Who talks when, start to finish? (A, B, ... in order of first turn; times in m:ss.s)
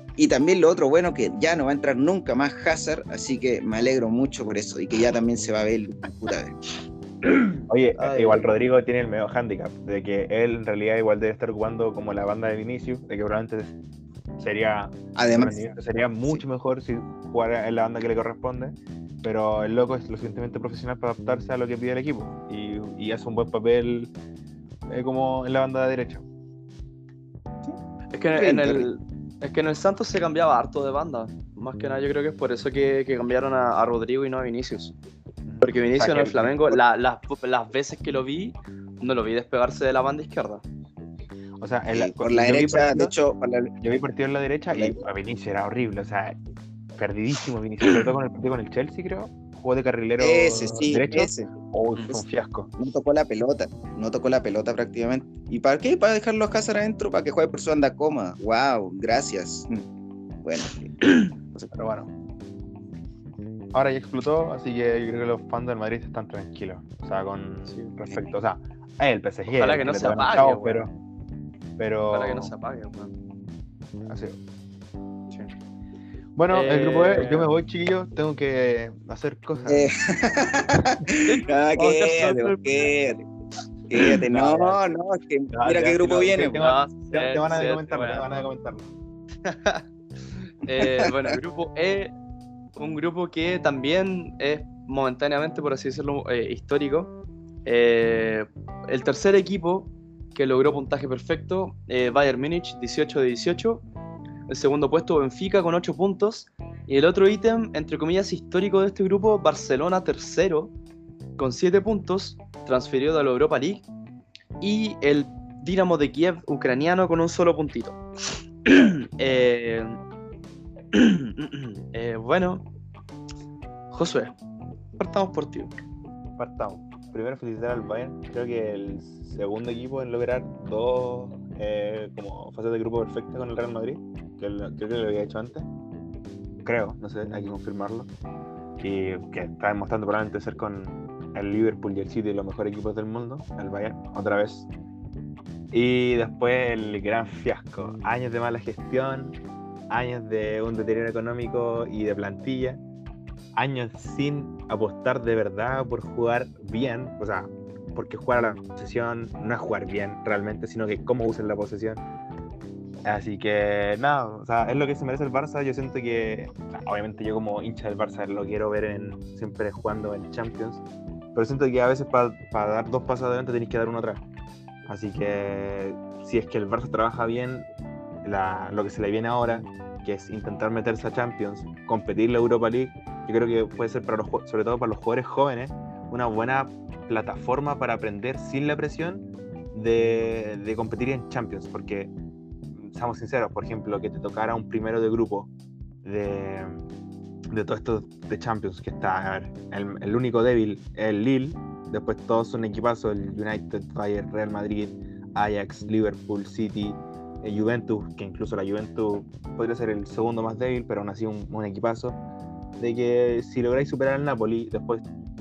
0:00.2-0:06.6 A
0:07.2-0:08.6 B
0:07.7-0:13.7 C
0:14.4-0:24.1 C
0:15.2-0:15.6 A
0:24.9-0:26.3 C
0:28.1-0:35.0 B
0:28.4-0:28.9 A
0:35.4-0:36.8 C
0:35.6-0:40.6 B
0:41.6-0:43.1 C
0:41.9-0:43.8 A
0:43.8-0:46.4 C
0:44.7-0:45.0 A
0:47.0-0:52.7 C
0:50.2-0:51.5 A
0:52.8-0:59.8 A
1:00.4-1:01.0 A
1:01.0-1:01.3 B
1:01.7-1:02.1 C
1:03.7-1:10.9 C
1:07.7-1:08.0 B
1:09.6-1:10.9 B
1:11.8-1:12.5 C
1:12.1-1:13.1 B
1:14.1-1:14.4 C
1:16.4-1:19.9 C
1:16.5-1:17.5 B
1:19.7-1:23.3 A
1:21.2-1:22.9 B
1:23.9-1:26.6 A
1:24.3-1:24.8 C
1:25.5-1:28.9 C
1:26.6-1:28.3 B
1:29.4-1:29.8 B
1:30.6-1:32.1 B
1:30.8-1:31.3 A
1:32.8-1:37.1 B
1:37.6-1:43.8 B
1:44.5-1:50.7 B
1:51.4-1:53.8 B
1:54.6-1:58.0 B
1:58.7-2:00.0 B
2:00.9-2:02.6 B
2:03.9-2:04.3 B
2:05.0-2:05.7 B
2:06.4-2:15.7 C
2:16.6-2:18.1 C
2:18.8-2:24.7 C
2:25.7-2:29.4 C
2:29.9-2:32.8 C
2:33.5-2:42.0 C
2:43.0-2:50.8 C
2:51.3-2:54.2 C
2:54.9-2:57.7 C
2:58.2-3:12.1 C
3:12.7-3:15.5 C
3:16.0-3:16.8 C
3:17.5-3:32.2 C
3:32.8-3:35.0 C